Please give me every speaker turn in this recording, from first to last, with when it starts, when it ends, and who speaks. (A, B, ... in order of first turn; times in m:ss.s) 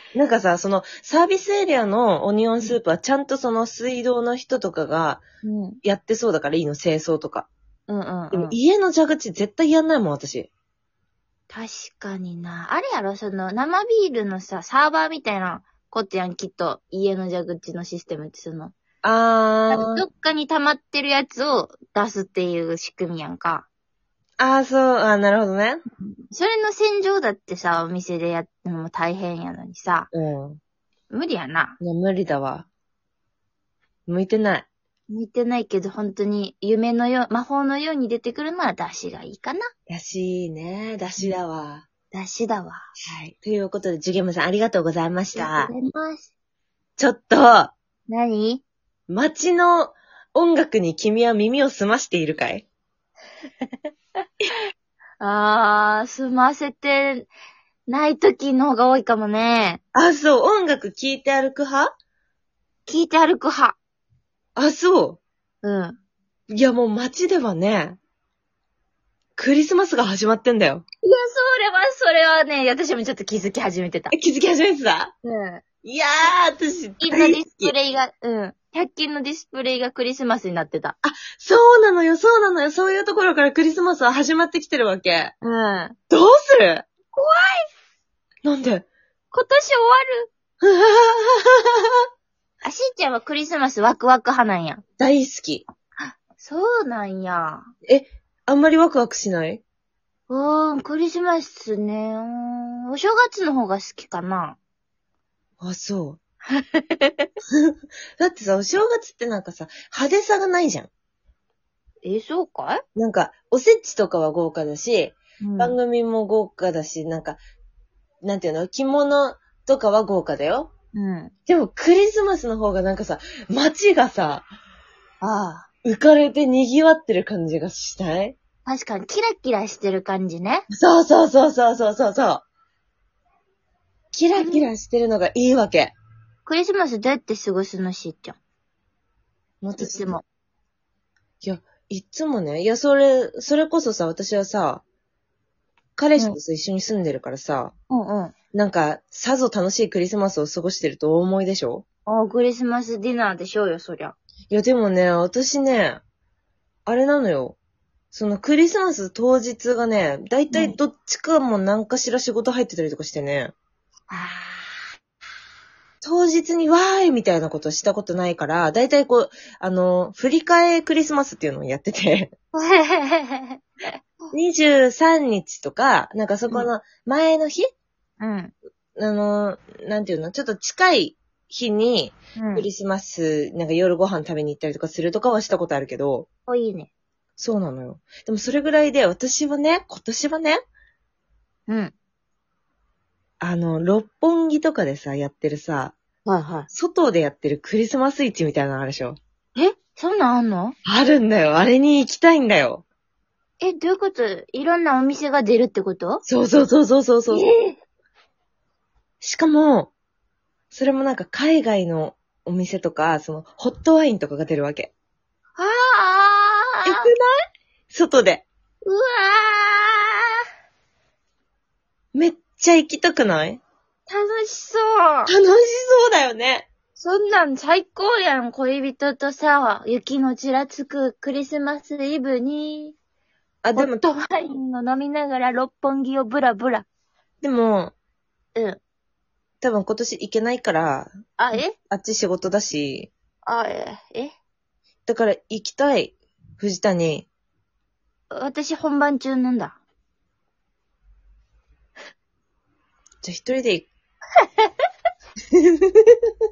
0:00.1-0:05.2 A
0:05.4-0:05.8 B
0:05.8-0:07.5 A
0:07.9-0:08.6 B
0:08.3-0:10.5 A
0:11.5-0:18.7 B
0:19.0-0:20.0 A
0:19.7-0:23.6 B
0:24.4-0:25.8 A
0:26.3-0:30.1 B
0:30.1-0:30.6 A
0:31.1-0:31.8 B
0:31.8-0:32.7 A
0:34.1-0:34.7 A
0:35.1-0:39.6 B
0:39.9-0:41.8 A
0:42.1-0:42.9 B
0:43.0-0:45.7 A
0:45.3-0:46.3 B
0:47.0-0:47.7 A
0:48.1-0:48.6 B
0:49.1-0:52.6 A
0:55.2-0:57.3 B
0:57.9-0:59.8 B
0:59.9-1:01.9 A
1:02.8-1:03.8 B
1:04.6-1:05.2 A
1:05.6-1:06.0 B
1:06.5-1:08.0 A
1:09.4-1:10.8 A
1:11.0-1:14.1 B
1:14.1-1:15.1 A
1:15.2-1:15.6 B
1:15.8-1:17.7 A
1:17.0-1:21.0 B
1:21.0-1:26.8 A
1:25.5-1:25.9 B
1:27.1-1:27.6 B
1:28.4-1:28.9 A
1:29.3-1:30.3 B
1:30.6-1:31.7 A
1:32.6-1:34.8 B
1:35.0-1:35.6 A
1:36.0-1:37.7 B
1:37.8-1:39.6 A
1:40.3-1:44.6 B
1:45.6-1:46.2 A
1:46.5-1:47.3 B
1:47.5-1:50.9 A
1:52.0-1:52.8 B
1:52.9-1:57.4 A
1:55.4-1:55.8 B
1:58.2-2:00.7 A
2:00.9-2:01.3 B
2:01.5-2:04.5 A
2:05.2-2:05.7 B
2:05.8-2:08.4 A
2:08.6-2:10.6 B
2:10.7-2:12.4 A
2:14.1-2:15.9 A
2:14.4-2:14.7 B
2:16.4-2:18.4 B
2:19.6-2:20.0 A
2:19.8-2:20.2 B
2:21.4-2:24.8 A
2:26.0-2:27.7 A
2:27.9-2:28.3 B
2:28.5-2:31.8 A
2:32.0-2:34.1 B
2:34.5-2:36.0 A
2:36.8-2:37.6 A
2:38.1-2:43.5 A
2:40.5-2:40.8 B
2:44.1-2:44.8 B
2:46.0-2:52.3 A
2:52.5-2:53.6 B
2:54.3-2:57.7 A
2:58.2-2:58.5 B
2:59.0-3:06.3 A
3:02.4-3:02.7 B
3:06.5-3:06.9 B
3:07.4-3:10.6 A
3:11.7-3:11.9 B
3:13.4-3:16.0 A
3:16.2-3:16.7 B
3:16.7-3:19.2 A
3:19.6-3:20.8 B
3:20.8-3:22.8 A
3:23.6-3:26.2 B
3:26.2-3:27.4 A
3:27.3-3:27.8 B
3:29.2-3:29.9 A
3:30.7-3:34.9 A
3:35.6-3:37.1 B
3:36.8-3:37.3 A
3:37.9-3:38.4 A
3:38.8-3:40.2 B
3:42.1-3:43.6 A
3:44.1-3:45.3 B
3:45.2-3:46.7 A
3:47.0-3:53.0 B
3:53.6-3:54.0 A
3:53.7-3:56.8 B
3:57.4-3:57.9 A
3:58.5-3:58.8 B
3:59.6-4:03.1 A
4:01.4-4:01.8 B
4:03.4-4:04.3 B
4:05.0-4:07.3 A
4:08.3-4:09.8 B
4:13.2-4:13.9 A
4:15.6-4:16.0 A